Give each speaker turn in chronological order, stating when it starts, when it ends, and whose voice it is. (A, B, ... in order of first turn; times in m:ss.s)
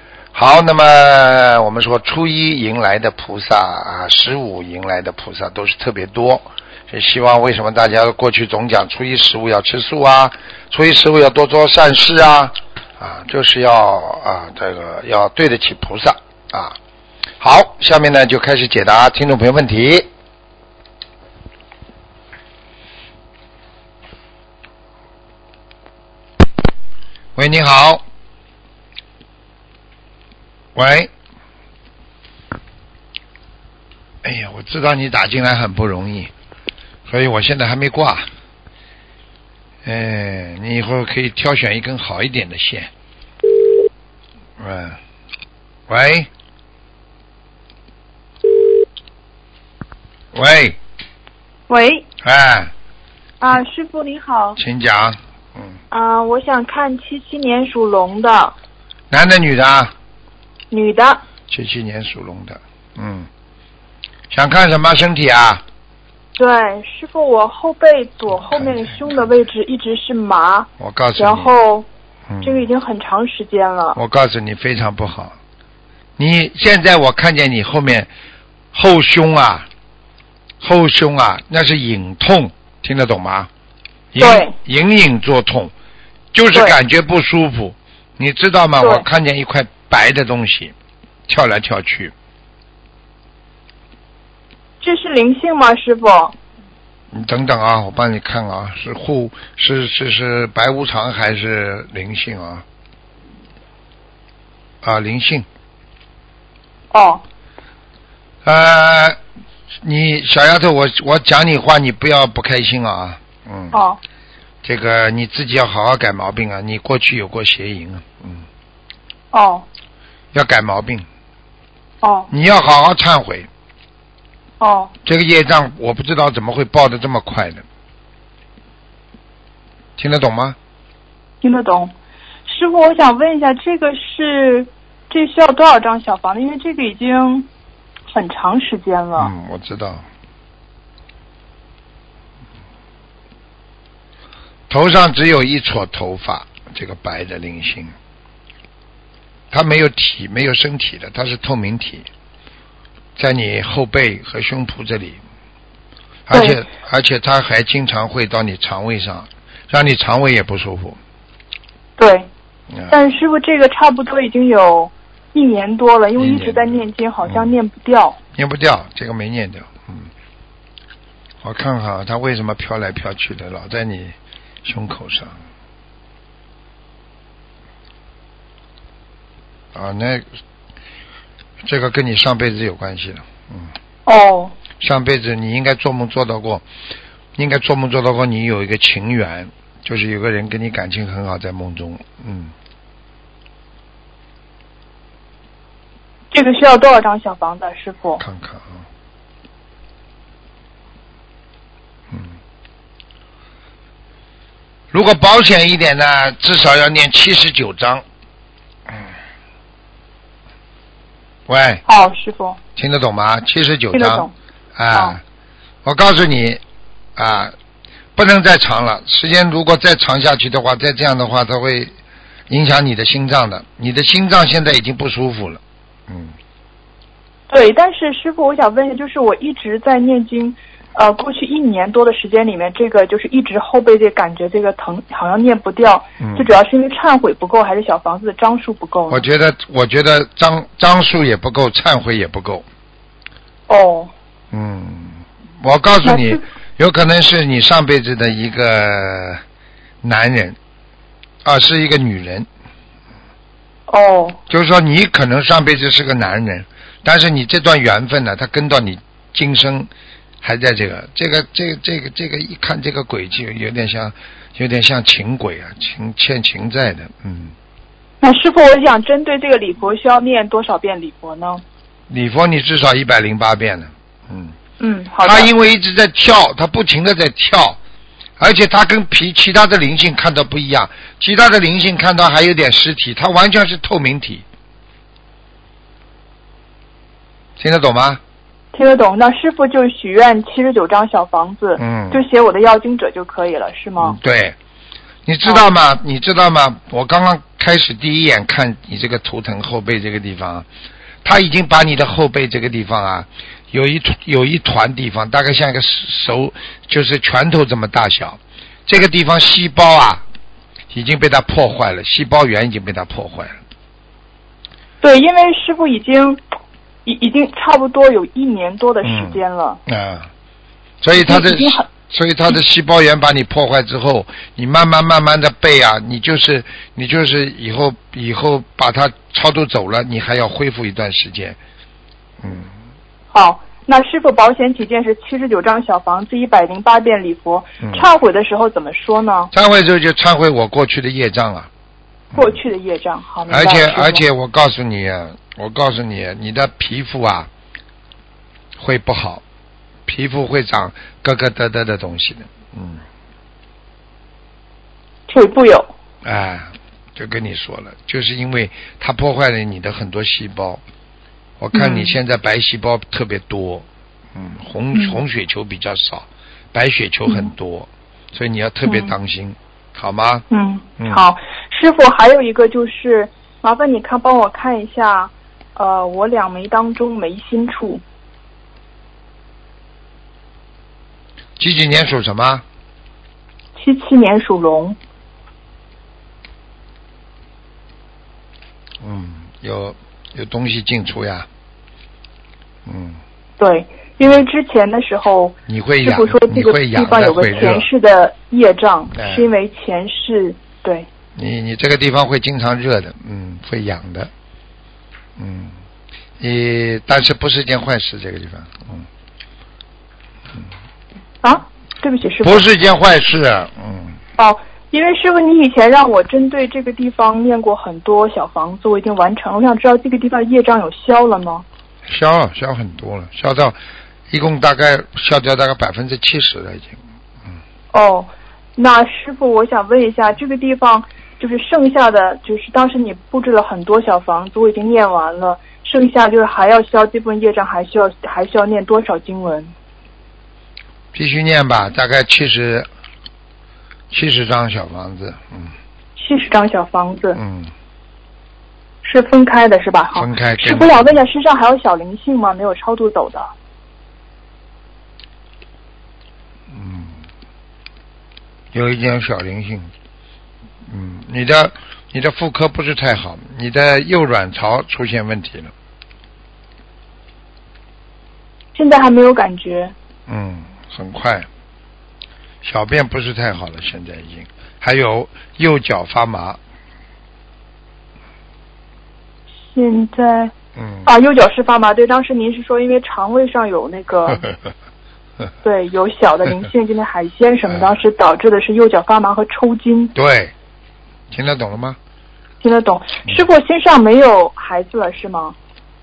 0:00.3-0:16.8 A
0:17.4-0:20.1 A
0:27.4-0:28.0 A
0:30.8-0:31.1 A
0:34.2-0:36.3 A
0:37.1-0:38.3 A
0:39.8-0:42.9 A
0:44.6-0:45.0 A
0:45.9-0:46.3 A
0:50.3-0:50.8 A
0:51.7-0:52.0 B
0:52.2-0:52.7 A
0:53.4-0:54.6 B
0:54.6-0:55.8 A
0:55.9-0:58.6 B
0:59.1-0:59.9 A
1:00.7-1:01.2 B
1:01.5-1:03.3 A
1:04.3-1:05.6 A
1:06.4-1:11.9 B
1:08.3-1:09.3 A
1:10.8-1:11.6 A
1:12.3-1:12.6 A
1:12.4-1:14.0 B
1:14.0-1:15.4 A
1:16.2-1:18.1 A
1:18.7-1:19.7 A
1:20.6-1:23.5 A
1:24.1-1:25.7 A
1:24.2-1:24.5 B
1:26.3-1:30.7 A
1:28.8-1:29.0 B
1:31.3-1:32.1 A
1:34.8-1:36.3 B
1:37.1-1:42.6 A
1:44.8-1:45.5 A
1:46.9-1:47.2 B
1:48.4-1:49.2 A
1:49.8-1:53.8 A
1:53.7-1:54.0 B
1:54.6-1:58.4 A
1:59.3-1:59.7 B
2:00.3-2:01.1 A
2:02.0-2:02.3 B
2:02.3-2:03.5 A
2:04.6-2:04.9 B
2:05.0-2:07.6 A
2:10.0-2:10.6 A
2:11.4-2:11.9 B
2:12.5-2:17.5 B
2:18.1-2:19.3 B
2:19.2-2:20.0 A
2:24.7-2:27.9 A
2:29.5-2:32.1 A
2:33.2-2:35.2 A
2:36.3-2:41.0 A
2:36.3-2:36.6 B
2:42.0-2:42.3 B
2:42.9-2:48.2 B
2:46.2-2:47.5 A
2:48.3-2:50.1 A
2:51.4-2:55.4 A
2:59.7-3:00.2 A
3:01.6-3:03.7 A
3:04.1-3:04.5 B
3:04.8-3:06.6 A
3:07.4-3:12.5 A
3:16.3-3:18.2 B
3:18.2-3:18.8 A
3:22.1-3:22.4 A
3:24.9-3:28.0 A
3:31.5-3:31.8 A
3:31.8-3:32.6 B
3:32.8-3:35.2 A
3:33.9-3:34.3 B
3:34.9-3:35.2 B
3:35.8-3:36.6 A
3:37.2-3:37.6 A
3:38.2-3:41.9 A
3:42.5-3:46.3 A
3:47.5-3:59.2 B
3:56.2-3:56.5 A
3:59.1-4:02.7 A
4:03.7-4:04.1 B
4:04.5-4:09.4 A
4:06.0-4:06.4 B
4:10.0-4:10.6 A
4:11.4-4:12.5 A
4:13.9-4:14.4 B
4:14.5-4:19.9 A
4:20.4-4:27.5 A
4:28.2-4:31.6 B
4:32.1-4:34.5 A
4:34.8-4:35.5 B
4:35.2-4:37.8 A
4:38.4-4:44.4 A
4:47.6-4:48.2 A
4:48.7-4:54.2 B
4:51.8-4:52.2 A
4:54.0-4:54.6 A
4:55.2-5:00.7 A
5:01.2-5:10.2 A
5:10.9-5:13.6 A
5:15.0-5:16.4 B
5:17.0-5:19.8 B
5:19.0-5:20.3 A
5:21.0-5:31.6 A
5:21.1-5:21.9 B
5:32.4-5:32.7 A
5:33.3-5:39.5 B
5:39.5-5:41.7 A
5:42.3-5:42.6 A
5:42.3-5:44.2 B
5:43.5-5:47.5 A
5:48.8-5:49.4 A
5:50.1-5:53.0 A
5:55.3-5:55.9 B
5:56.2-6:00.8 A
6:01.6-6:10.4 A
6:01.7-6:02.1 B
6:04.9-6:05.2 B
6:08.8-6:09.1 B
6:10.5-6:18.0 B
6:11.0-6:11.2 A
6:21.6-6:22.6 A
6:23.8-6:25.0 B
6:29.0-6:31.5 A
6:32.9-6:33.2 A
6:33.6-6:41.1 B
6:35.7-6:37.9 A
6:39.2-6:39.5 A
6:41.4-6:44.3 A
6:45.4-6:45.7 A
6:46.4-6:49.1 A
6:51.4-6:52.6 B
6:52.4-6:54.2 A
6:54.4-7:01.6 B
7:02.1-7:03.8 A
7:04.3-7:07.0 A
7:07.9-7:19.7 B
7:21.1-7:22.9 A
7:24.1-7:25.7 A
7:26.2-7:27.4 B
7:27.4-7:27.7 A
7:29.0-7:33.5 B
7:30.1-7:31.2 A
7:36.7-7:37.2 A
7:38.7-7:39.9 A
7:40.9-7:45.7 A
7:48.8-7:49.9 B
7:50.3-7:51.5 A
7:52.6-7:56.6 A
7:59.7-8:00.5 B
8:00.8-8:01.1 A
8:01.0-8:04.4 B
8:05.6-8:10.1 B
8:07.7-8:08.0 A
8:10.2-8:10.5 A
8:11.3-8:12.0 A
8:12.6-8:15.6 B